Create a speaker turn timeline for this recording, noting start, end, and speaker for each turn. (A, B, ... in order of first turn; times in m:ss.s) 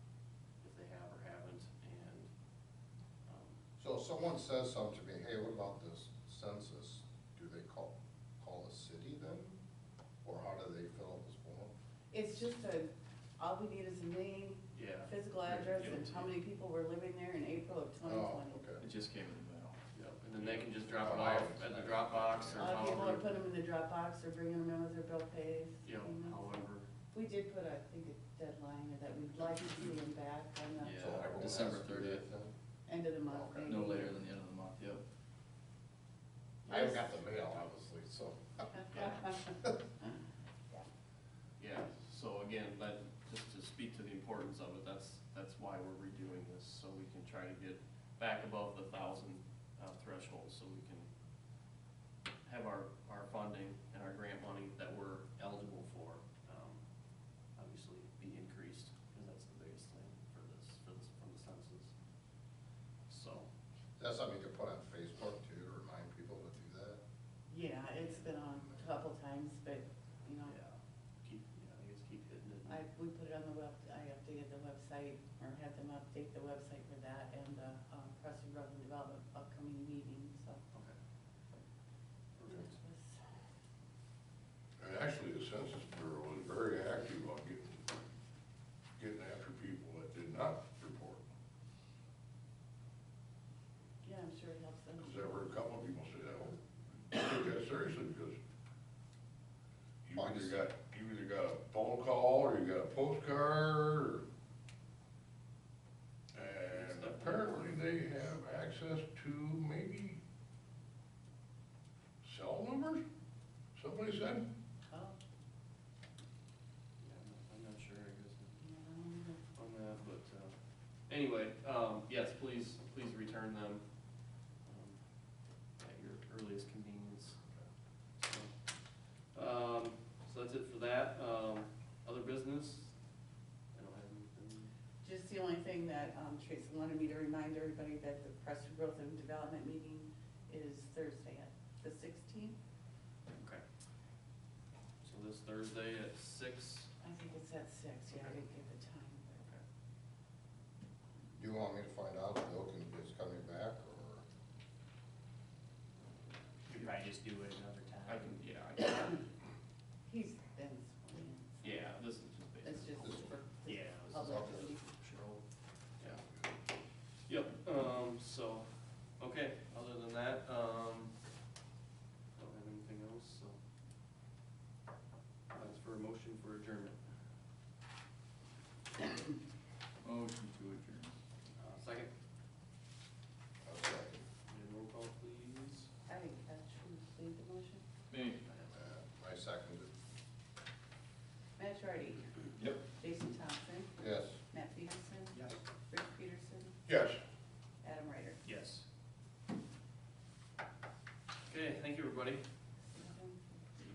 0:00.6-0:02.3 A
0:03.3-0:03.6 A
0:03.8-0:09.6 B
0:10.2-0:11.7 B
0:12.1-0:18.7 C
0:14.7-0:16.3 A
0:18.0-0:18.8 B
0:18.8-0:19.8 D
0:19.9-0:23.3 A
0:20.4-0:22.9 B
0:21.0-0:21.4 E
0:22.6-0:31.1 C
0:25.8-0:26.9 A
0:30.8-0:31.5 A
0:31.0-0:32.5 B
0:31.3-0:32.2 D
0:32.9-0:34.2 C
0:33.3-0:33.7 B
0:33.6-0:35.0 D
0:36.7-0:39.2 B
0:36.7-0:37.1 C
0:39.0-0:39.5 C
0:41.6-0:51.1 A
0:52.4-0:56.8 A
0:57.6-1:01.9 A
1:03.1-1:03.5 A
1:04.0-1:07.0 B
1:07.5-1:10.6 C
1:10.4-1:12.8 A
1:12.7-1:20.6 C
1:22.4-1:22.7 A
1:22.5-1:23.2 C
1:24.8-1:27.8 E
1:29.0-1:31.2 E
1:34.0-1:35.3 C
1:35.0-1:36.6 E
1:37.1-1:38.4 E
1:40.0-1:44.2 E
1:40.2-1:40.6 B
1:46.3-1:50.2 E
1:46.7-1:47.8 A
1:52.2-1:53.0 E
1:53.8-1:54.5 E
1:54.9-1:55.2 C
1:57.0-1:58.6 A
1:58.6-1:59.4 C
1:59.6-2:00.6 A
2:01.1-2:03.8 A
2:04.6-2:05.0 A
2:05.8-2:07.4 A
2:08.2-2:08.5 A
2:09.3-2:13.0 A
2:13.7-2:14.7 A
2:15.0-2:22.6 C
2:23.4-2:23.6 A
2:25.0-2:26.9 A
2:27.0-2:29.4 C
2:31.4-2:34.2 B
2:36.7-2:38.4 F
2:38.0-2:39.3 A
2:40.1-2:41.8 C
2:41.6-2:43.3 A
2:42.6-2:44.8 C
2:43.7-2:44.5 F
2:44.1-2:44.7 A
2:44.3-2:44.6 B
2:47.3-2:51.2 A
2:52.4-2:53.6 A
2:55.5-2:57.0 A
3:00.0-3:01.1 D
3:01.6-3:02.1 A
3:03.6-3:04.2 B
3:04.5-3:05.9 A
3:06.1-3:07.8 C
3:08.1-3:08.4 D
3:08.5-3:08.8 A
3:08.7-3:09.9 B
3:11.6-3:16.8 C
3:14.0-3:14.4 B
3:16.9-3:17.2 E
3:17.8-3:18.4 C
3:18.4-3:18.8 F
3:21.5-3:22.4 A
3:22.9-3:23.6 C